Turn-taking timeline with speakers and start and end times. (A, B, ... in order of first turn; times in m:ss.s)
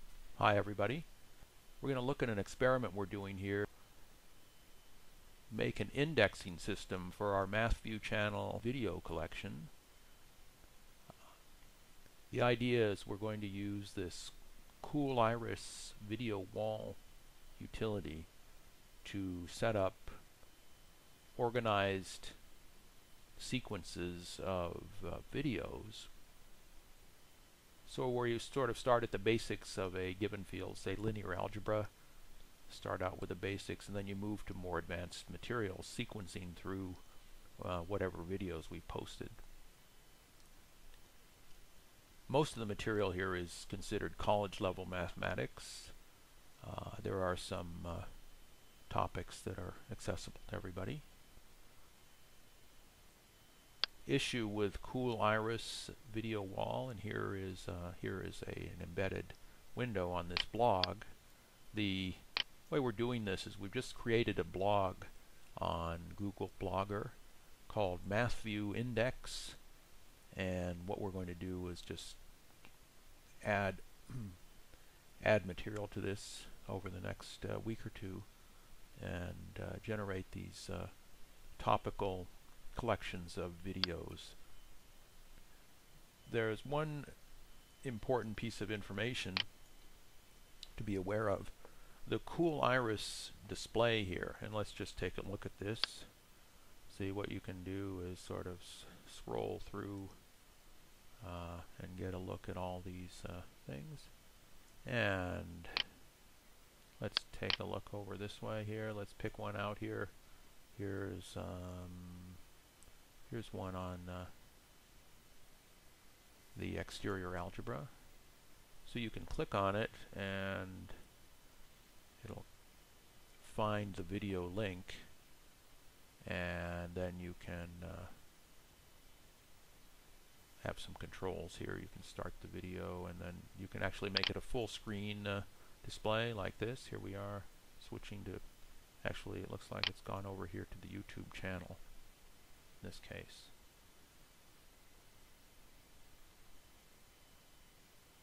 0:00.4-0:01.1 A
0:01.8-0:03.7 A
0:05.5-0:09.7 A
0:12.3-0:17.0 A
0:17.5-0:18.3 A
0:19.0-0:20.3 A
0:21.4-0:22.4 A
0:23.4-0:26.1 A
0:27.8-0:32.0 A
0:32.6-0:39.4 A
0:42.3-0:46.0 A
0:46.6-0:48.2 A
0:48.8-0:51.1 A
0:54.0-1:01.1 A
1:01.7-1:09.6 A
1:10.3-1:12.2 A
1:13.4-1:14.5 A
1:15.2-1:18.3 A
1:18.9-1:24.4 A
1:26.2-1:27.3 A
1:27.8-1:29.5 A
1:30.8-1:36.1 A
1:36.9-1:40.2 A
1:41.2-1:44.1 A
1:44.8-1:46.0 A
1:47.0-1:50.2 A
1:50.7-1:52.4 A
1:53.3-1:54.3 A
1:56.5-1:57.9 A
1:58.8-2:01.0 A
2:02.2-2:02.6 A
2:03.4-2:05.1 A
2:06.2-2:08.2 A
2:10.6-2:21.9 A
2:22.8-2:23.5 A